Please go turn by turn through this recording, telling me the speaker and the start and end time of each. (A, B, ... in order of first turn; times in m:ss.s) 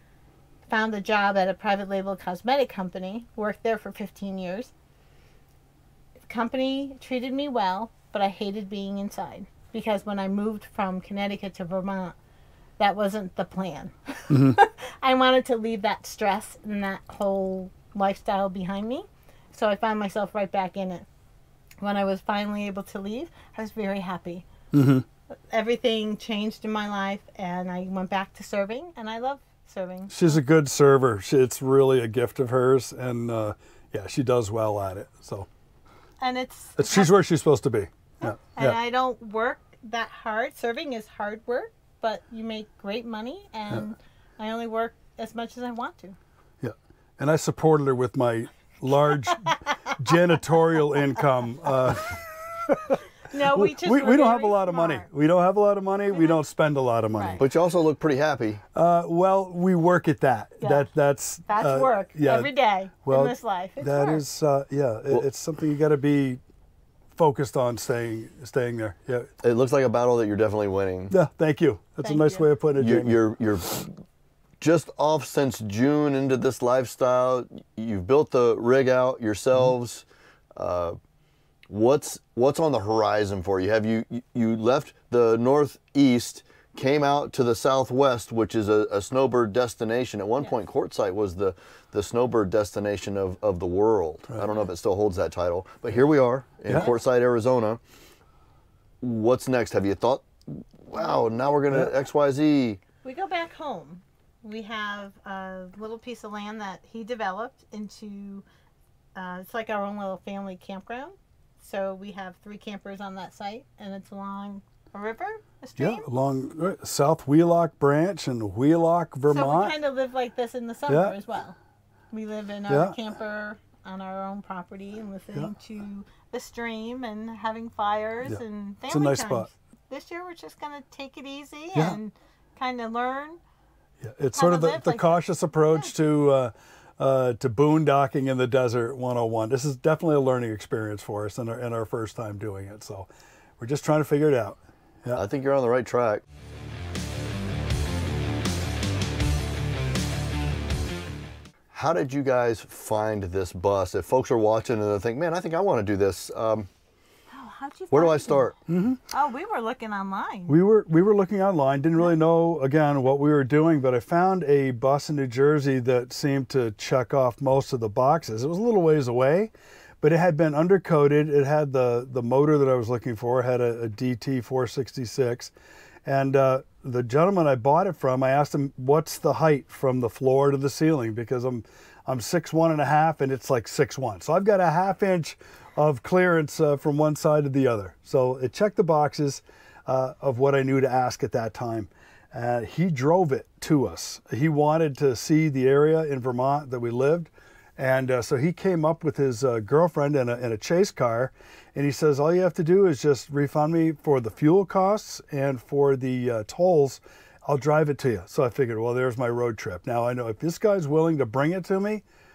0:00.7-0:04.7 A
0:06.3-0:12.2 A
0:12.8-0:21.1 A
0:14.3-0:14.6 B
0:21.8-0:24.5 A
0:24.7-0:25.0 B
0:25.5-0:30.4 A
0:30.1-0:35.5 B
0:36.2-0:37.1 A
0:36.8-0:38.8 B
0:38.2-0:46.2 A
0:46.6-0:57.4 B
0:53.2-0:55.1 A
0:56.1-0:56.4 A
0:57.1-0:57.4 A
0:57.4-0:58.6 C
0:58.8-1:02.5 B
1:00.6-1:00.9 A
1:01.5-1:04.2 A
1:03.0-1:06.4 B
1:07.2-1:09.3 B
1:09.4-1:11.1 C
1:11.1-1:13.2 B
1:12.0-1:12.5 A
1:12.8-1:14.0 C
1:14.6-1:20.0 C
1:20.6-1:21.0 C
1:21.7-1:37.8 C
1:36.7-1:36.9 B
1:39.0-1:42.8 C
1:43.0-1:48.4 A
1:49.2-1:56.1 A
1:55.8-1:59.8 B
1:59.3-2:01.6 A
2:00.9-2:01.2 B
2:02.1-2:13.4 A
2:02.7-2:03.0 B
2:08.3-2:09.5 B
2:11.7-2:12.0 B
2:14.0-2:25.2 B
2:14.3-2:15.9 A
2:25.1-2:26.2 C
2:31.7-2:36.7 C
2:37.3-2:38.6 A
2:37.9-2:38.5 C
2:38.7-2:39.0 B
2:39.1-2:40.6 A
2:40.5-2:55.5 B
2:56.1-3:32.0 B